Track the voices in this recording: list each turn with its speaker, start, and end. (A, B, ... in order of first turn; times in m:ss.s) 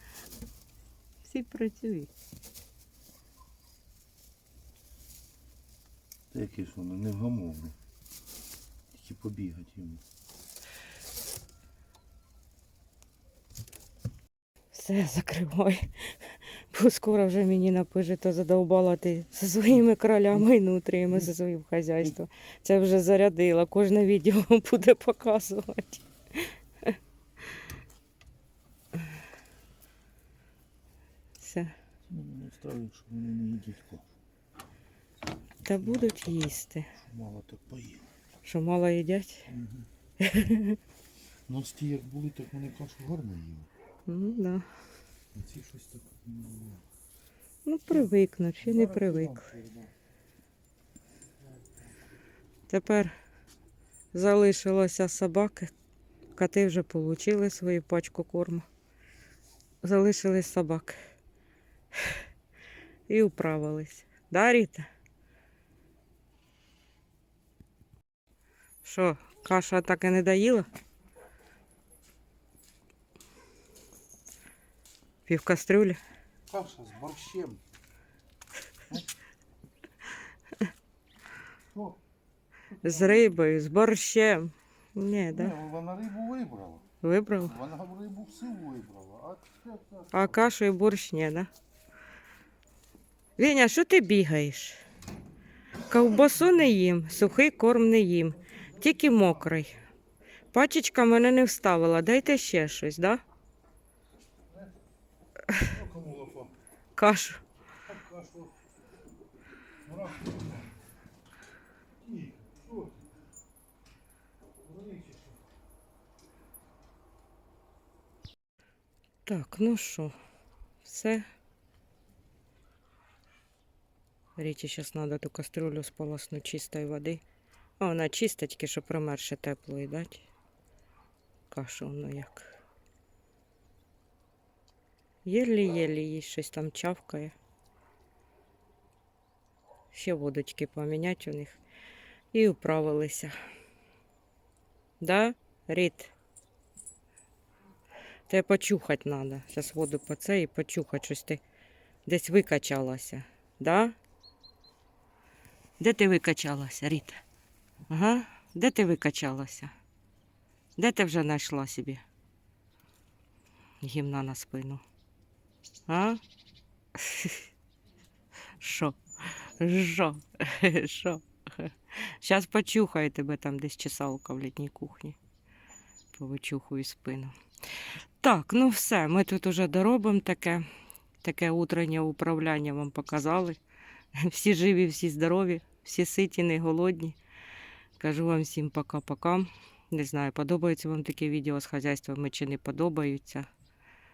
0:01.2-0:02.1 A
0:06.3-0:07.8 B
0:08.9-0:10.0 B
0:14.7-0:27.0 A
0:31.4-0:31.7 A
0:32.1-0:34.1 B
0:35.6-0:36.9 A
0:35.8-0:38.1 B
0:38.4-0:39.5 A
0:39.5-0:39.9 B
0:40.2-0:40.8 A
0:41.5-0:43.7 B
0:44.1-0:44.7 A
0:45.3-0:46.8 B
0:47.6-0:49.4 A
0:47.9-0:49.9 B
0:52.7-0:53.1 A
0:54.1-0:55.7 A
0:56.4-0:58.7 A
0:59.8-1:01.0 A
1:02.0-1:02.2 A
1:03.1-1:04.9 A
1:08.8-1:10.7 A
1:15.3-1:16.0 A
1:16.5-1:17.6 B
1:21.7-1:22.0 B
1:22.7-1:23.3 B
1:22.8-1:25.6 A
1:25.2-1:26.9 B
1:27.0-1:27.6 A
1:27.4-1:30.4 B
1:30.1-1:31.5 A
1:33.4-1:34.8 A
1:35.9-1:39.8 A
1:40.5-1:43.2 A
1:45.6-1:46.5 B
1:47.0-1:47.4 A
1:47.9-1:48.5 B
1:49.8-1:50.6 B
1:52.0-1:53.1 B
1:54.6-1:55.4 B
1:59.2-2:00.1 A
2:00.8-2:01.3 A
2:04.4-2:07.2 A
2:07.8-2:10.3 A
2:11.5-2:12.6 A
2:15.2-2:17.3 A
2:19.9-2:21.6 A
2:22.3-2:23.4 A
2:25.0-2:26.1 A
2:28.3-2:31.4 A
2:32.1-2:34.0 A
2:35.8-2:37.2 A
2:37.9-2:39.7 A
2:40.8-2:42.0 A
2:43.8-2:44.8 A
2:45.9-2:46.2 A
2:47.0-2:47.4 A
2:48.6-2:55.2 A
2:56.2-2:57.3 A
2:58.2-3:00.6 A
3:01.2-3:03.6 A
3:04.2-3:07.2 A
3:08.0-3:13.5 A